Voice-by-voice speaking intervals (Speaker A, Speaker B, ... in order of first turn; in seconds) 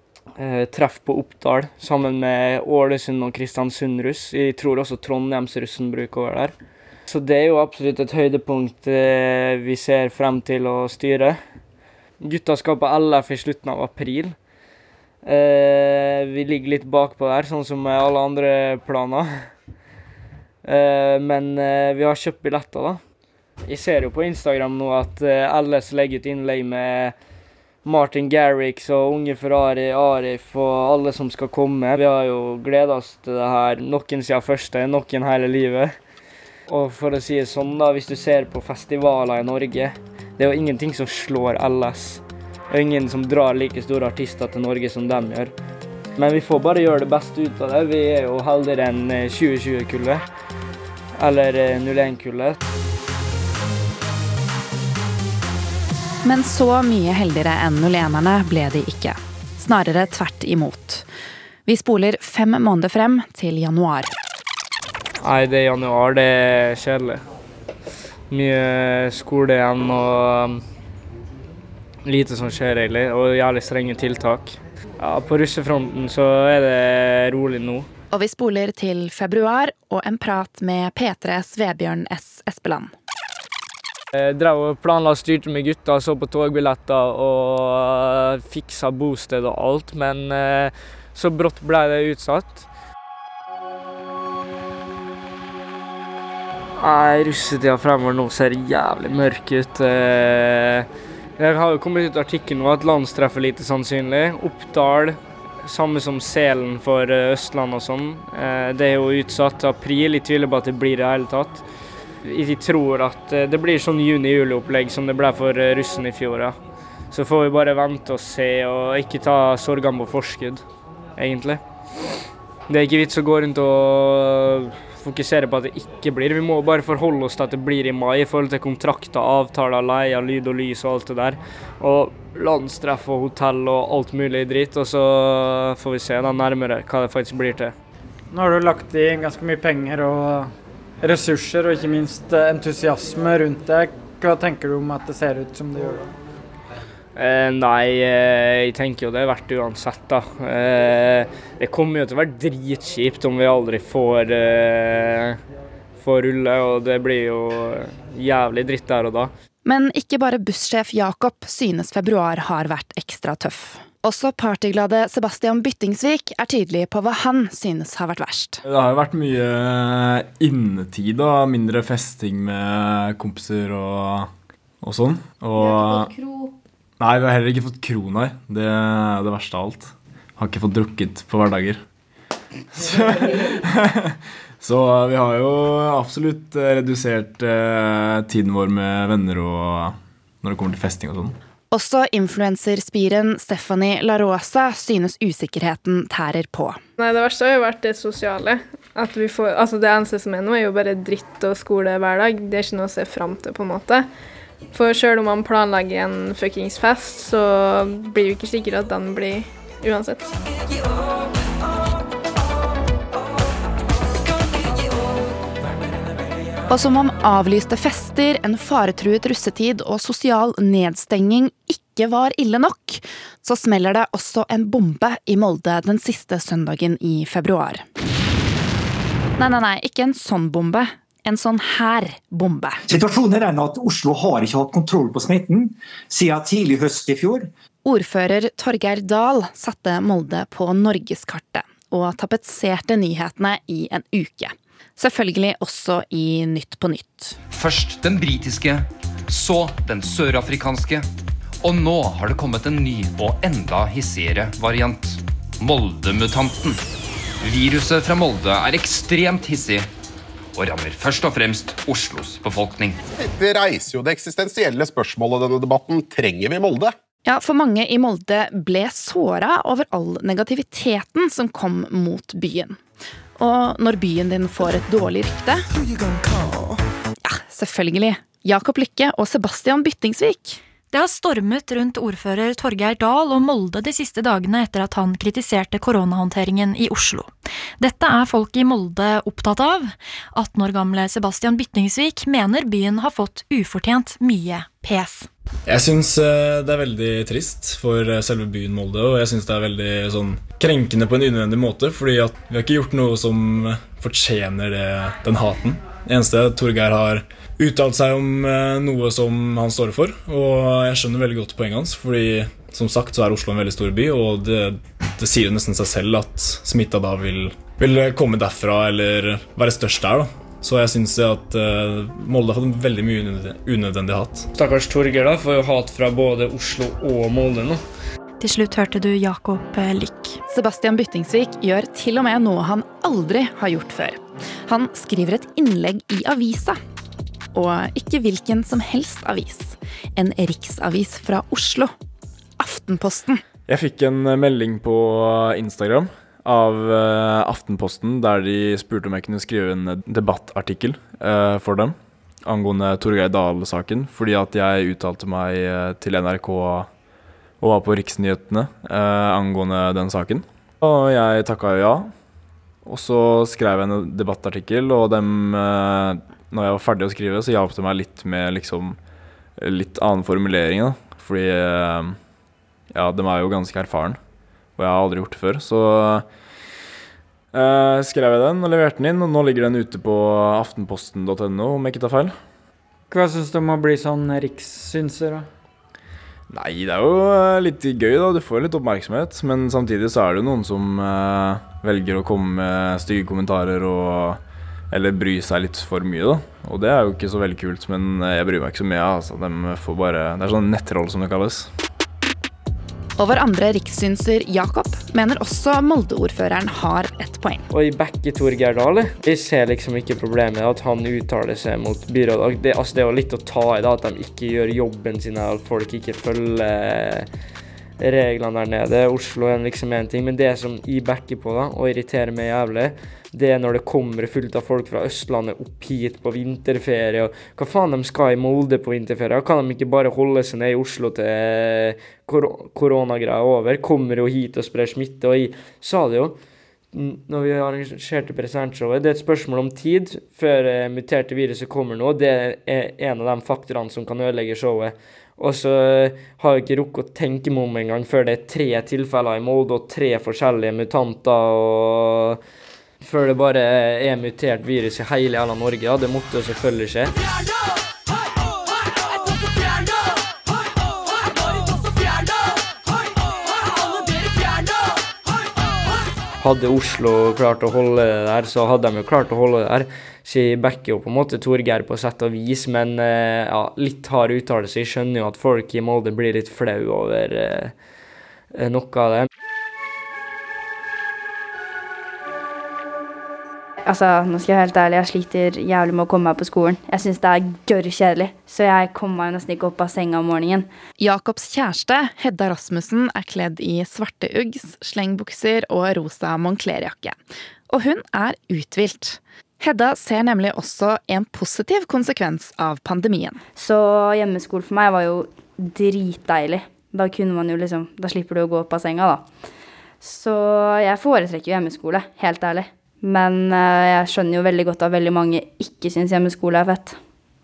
Speaker A: 0.4-6.5, 7.1-11.4, 12.2-14.3, 15.2-19.3, 20.6-23.0, 23.6-27.1, 27.8-35.9, 36.7-45.5, 46.2-50.2, 51.2-52.6, 65.2-67.2, 68.3-70.6, 72.0-77.9, 84.1-92.7, 96.8-100.8, 101.4-111.6, 112.2-116.5, 117.1-120.6, 121.2-121.6, 122.7-137.7, 147.2-155.3, 155.9-159.3, 324.5-327.8, 407.7-417.2, 418.0-436.4, 436.9-452.4, 453.0-457.1, 466.4-477.7, 478.5-479.3
Speaker B: 56.2-61.0, 61.6-64.1, 78.1-82.9, 159.6-168.6, 191.7-196.8, 216.7-227.8, 229.4-232.8, 237.8-247.4, 267.2-272.8, 273.4-275.6, 277.2-280.6, 330.5-336.8, 337.5-341.9, 342.6-343.4, 403.2-407.6, 491.0-497.2, 497.7-503.4
Speaker C: 138.3-140.5, 141.0-146.1, 383.1-385.4
Speaker D: 168.7-174.3, 174.8-176.1, 177.0-181.8, 182.7-191.3, 295.7-324.4, 343.7-356.9, 357.6-362.1, 362.8-369.0, 369.6-372.2, 372.9-374.2, 374.8-376.2, 377.5-382.3, 386.5-401.7
Speaker E: 197.0-204.1, 204.7-210.3
Speaker F: 232.9-237.5
Speaker G: 247.5-251.0, 251.6-256.8, 257.4-259.9, 260.5-263.0
Speaker H: 263.2-266.9
Speaker I: 280.9-295.3, 328.4-330.4
Speaker J: 483.9-490.7, 503.6-509.2, 510.0-517.0